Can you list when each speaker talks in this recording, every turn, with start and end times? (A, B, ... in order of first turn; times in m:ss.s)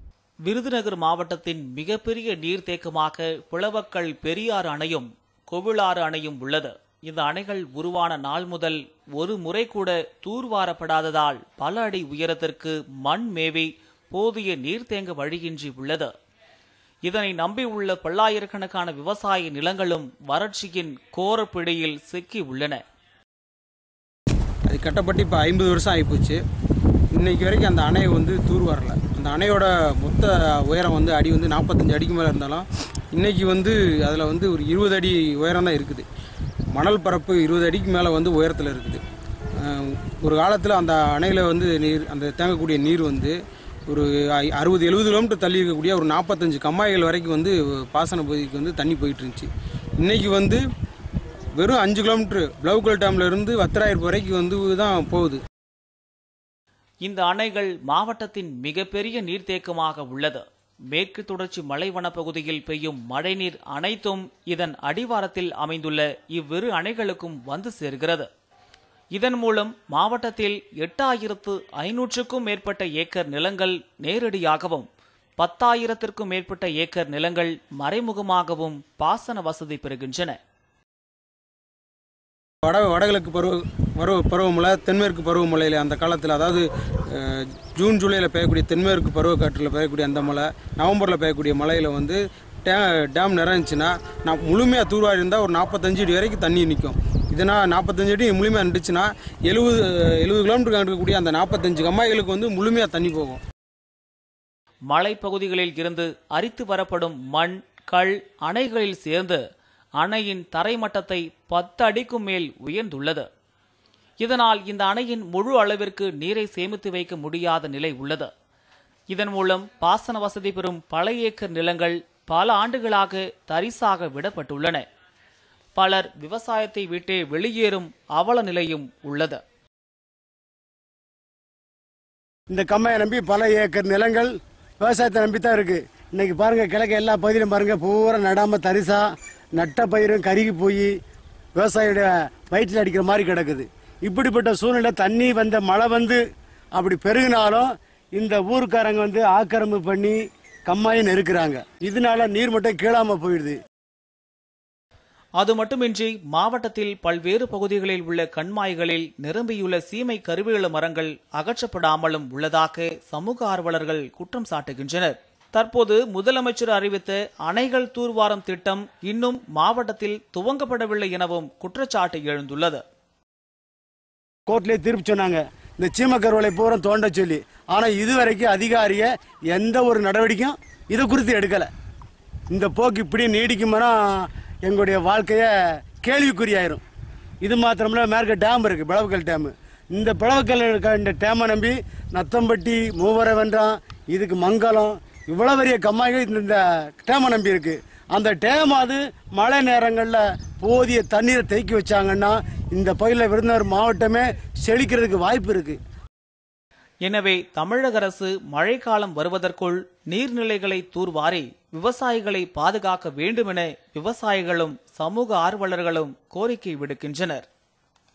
0:00.4-0:16.1 A
0:17.0-0:22.8 A
0:24.7-0:26.4 B
0:27.1-0:36.0 B
0:36.7-0:39.0 B
0:39.6-0:43.3 B
0:43.9-0:49.5 B
0:50.0-0:50.6 B
0:51.6-0:55.4 B
0:57.0-1:08.3 A
1:09.1-1:14.9 A
1:15.4-1:20.4 A
1:22.6-1:43.4 B
1:44.9-1:49.4 A
1:50.0-1:53.3 A
1:54.2-1:58.3 A
1:59.1-2:04.8 A
2:05.8-2:09.4 A
2:12.5-2:19.0 C
2:19.6-2:20.9 C
2:21.6-2:26.2 C
2:26.8-2:33.5 C
2:35.4-2:52.8 A
2:54.5-3:01.7 C
3:02.5-3:05.5 C
3:06.0-3:06.8 C
3:07.4-3:25.8 C
3:27.0-3:37.4 A